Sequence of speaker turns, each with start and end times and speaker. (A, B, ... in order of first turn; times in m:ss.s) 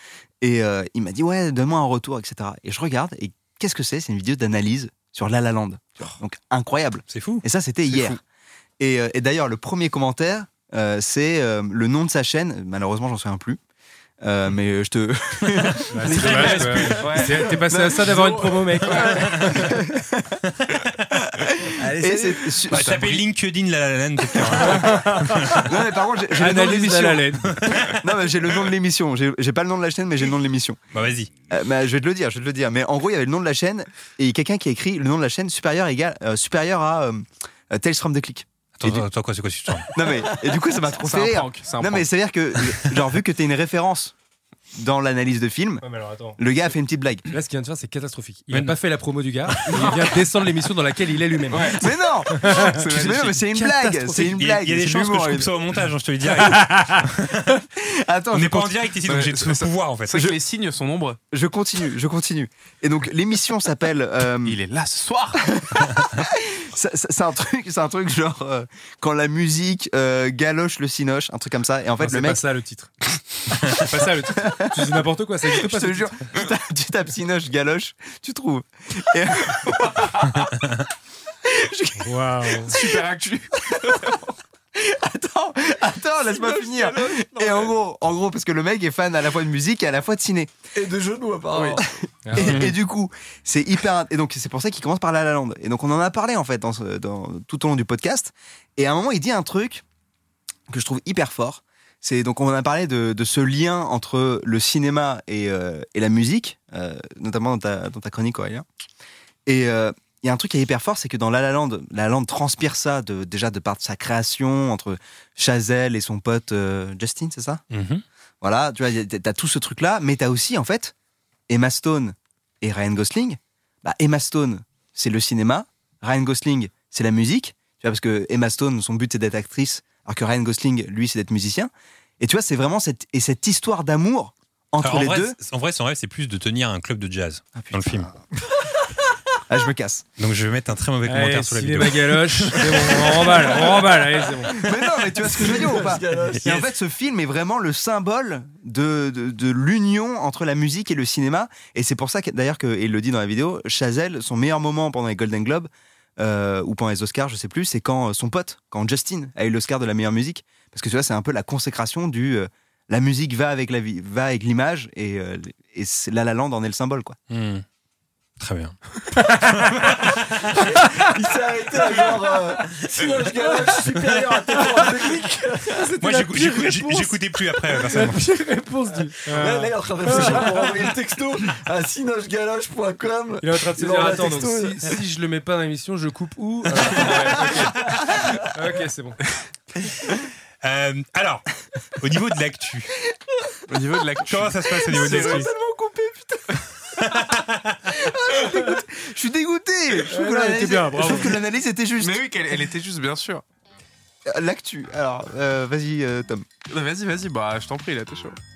0:00.4-0:08.2 A
0:07.1-0:07.4 B
0:07.9-0:08.1 C
0:08.8-0:13.6 A
0:14.2-0:17.0 A
0:15.6-0:17.2 B
0:15.9-0:19.7 D
0:16.2-0:17.6 C
0:18.0-0:18.8 E
0:18.9-0:19.3 C
0:19.0-0:19.7 B
0:19.6-0:20.4 A
0:20.6-0:21.2 B
0:21.2-0:23.0 A
0:21.8-0:22.5 E
0:22.7-0:23.2 C
0:22.7-0:25.7 B
0:24.6-0:25.6 D
0:25.6-0:30.8 A
0:26.3-0:27.6 D
0:27.4-0:28.0 B
0:30.9-0:31.3 B
0:31.5-0:39.0 A
0:38.8-0:39.9 B
0:39.9-0:44.1 A
0:41.0-0:42.1 C
0:44.7-0:45.8 A
0:45.8-0:46.4 D
0:46.4-0:47.3 A
0:47.3-0:52.8 D
0:49.7-0:50.0 C
0:51.5-0:53.4 C
0:51.7-0:55.5 A
0:53.5-0:54.4 D
0:54.2-0:57.6 B
0:56.5-0:56.9 D
0:57.7-0:58.7 A
0:58.3-1:00.1 B
0:59.0-1:01.2 C
1:01.3-1:04.6 A
1:04.4-1:05.4 C
1:05.4-1:12.4 A
1:12.0-1:12.9 D
1:13.6-1:20.5 A
1:13.7-1:16.3 D
1:20.5-1:20.8 B
1:21.4-1:23.0 A
1:22.0-1:22.7 D
1:22.7-1:24.2 C
1:23.6-1:24.2 A
1:24.7-1:30.5 A
1:26.4-1:27.7 C
1:30.7-1:31.8 E
1:31.5-1:31.9 C
1:31.8-1:39.8 A
1:32.2-1:32.7 D
1:32.4-1:32.7 B
1:40.7-1:48.6 A
1:49.4-1:57.6 A
1:57.7-1:58.0 B
1:58.4-2:00.9 A
2:01.5-2:15.4 A
2:14.8-2:18.1 B
2:17.5-2:18.2 A
2:19.5-2:20.0 A
2:20.2-2:23.4 B
2:21.0-2:24.6 D
2:24.4-2:47.2 A
2:25.2-2:26.6 E
2:47.3-2:47.6 B
2:48.4-2:48.8 B
2:49.1-2:49.7 D
2:49.4-2:50.4 B
2:50.5-2:55.9 E
2:55.8-3:00.8 D
2:56.0-2:58.2 B
2:59.2-3:04.9 E
3:03.4-3:09.2 D
3:10.6-3:11.4 B
3:12.0-3:12.9 B
3:13.7-3:15.5 C
3:14.2-3:15.5 B
3:15.0-3:16.4 A
3:17.0-3:17.8 B
3:17.8-3:22.7 A
3:20.1-3:21.3 D
3:22.0-3:23.4 C
3:24.3-3:26.4 A
3:26.7-3:28.4 C